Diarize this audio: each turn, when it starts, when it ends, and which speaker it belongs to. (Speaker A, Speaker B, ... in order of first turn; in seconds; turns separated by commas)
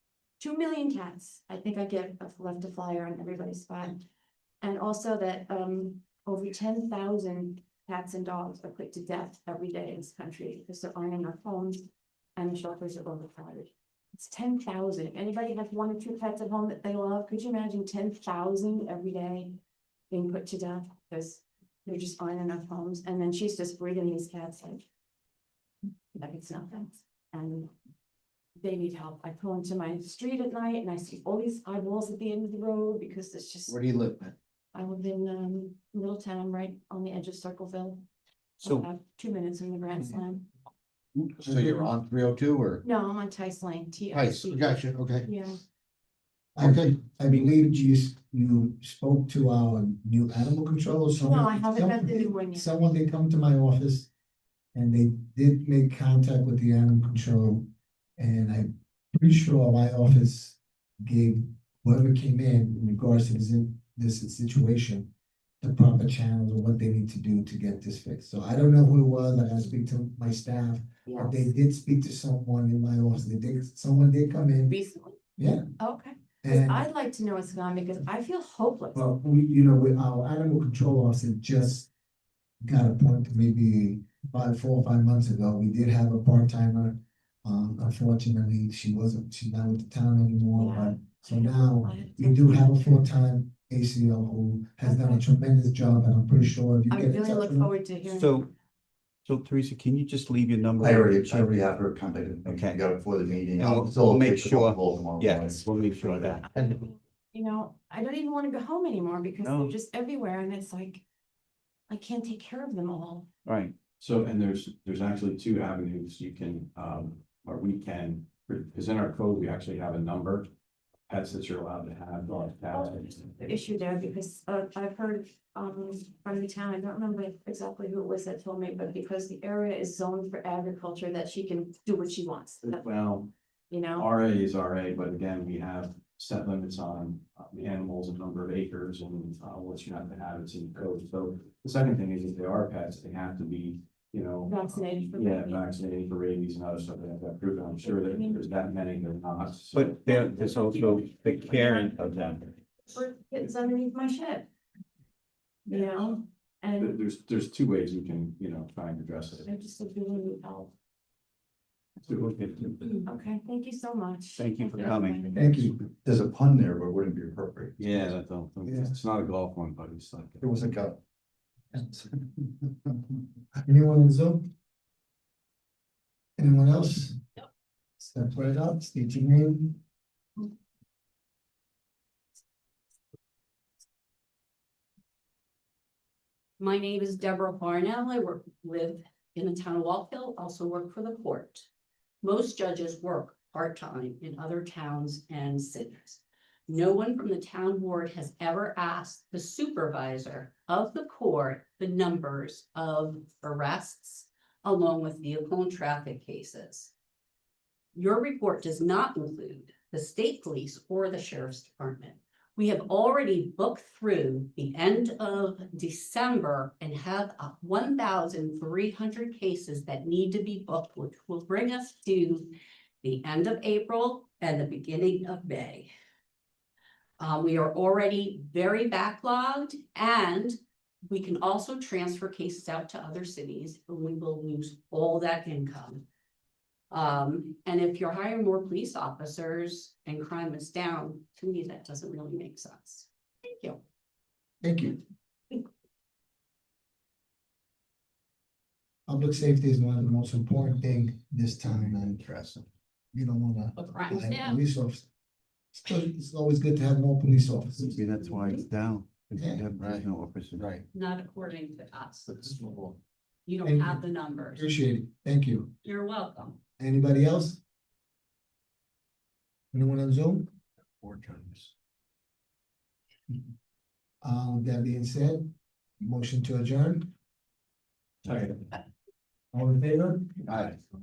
Speaker A: 0.4-4.0, Speaker A: 4.6-24.8, Speaker A: 26.1-27.7, Speaker A: 28.6-33.8, Speaker B: 33.7-34.3, Speaker A: 34.7-38.0, Speaker A: 38.6-40.5, Speaker C: 38.6-38.9, Speaker B: 41.4-42.8, Speaker D: 41.5-41.8, Speaker A: 42.8-45.6, Speaker B: 44.1-45.2, Speaker D: 46.5-54.1, Speaker B: 46.6-46.9, Speaker A: 51.2-52.7, Speaker D: 54.7-57.6, Speaker D: 58.2-65.1, Speaker D: 65.6-74.7, Speaker A: 74.7-75.1, Speaker D: 75.4-75.6, Speaker A: 75.8-79.0, Speaker D: 76.4-76.8, Speaker D: 78.9-81.9, Speaker D: 82.6-97.7, Speaker A: 90.5-93.0, Speaker A: 94.8-95.2, Speaker A: 96.9-98.3, Speaker C: 98.0-98.5, Speaker C: 99.2-101.6, Speaker B: 100.8-106.7, Speaker C: 102.4-102.8, Speaker C: 103.6-106.6, Speaker A: 106.5-111.0, Speaker C: 109.4-109.7, Speaker A: 111.9-113.3, Speaker C: 113.5-113.7, Speaker E: 114.0-120.5, Speaker E: 121.1-123.3, Speaker A: 122.7-132.8, Speaker E: 132.6-133.3, Speaker A: 133.7-134.1, Speaker E: 134.0-144.5, Speaker A: 144.5-145.7, Speaker E: 145.2-149.8, Speaker A: 147.8-148.4, Speaker C: 149.7-152.6, Speaker A: 152.9-154.5, Speaker A: 155.7-157.0, Speaker E: 156.9-159.4, Speaker A: 159.4-160.7, Speaker C: 162.0-163.0, Speaker A: 163.0-165.7, Speaker C: 164.4-165.4, Speaker D: 165.3-165.7, Speaker B: 166.0-168.1, Speaker E: 167.8-170.4, Speaker D: 168.6-168.9, Speaker B: 170.4-171.0, Speaker B: 171.7-172.3, Speaker D: 173.7-174.4, Speaker D: 176.4-177.2, Speaker D: 178.0-179.8, Speaker F: 186.6-191.7, Speaker F: 192.2-206.9, Speaker F: 207.9-225.9, Speaker F: 227.2-236.0, Speaker F: 236.9-243.8, Speaker D: 244.6-245.0, Speaker D: 249.1-252.2, Speaker B: 252.0-252.7, Speaker D: 253.1-255.1, Speaker F: 253.8-254.6, Speaker D: 255.7-258.0, Speaker B: 257.9-260.8, Speaker D: 259.4-259.7, Speaker F: 260.9-262.3, Speaker B: 262.3-262.9, Speaker F: 263.4-264.7, Speaker D: 263.6-265.7, Speaker F: 265.8-266.6, Speaker D: 266.8-267.6, Speaker D: 269.7-270.4, Speaker B: 271.0-271.7, Speaker D: 274.2-277.1, Speaker D: 279.5-280.3, Speaker B: 280.5-280.8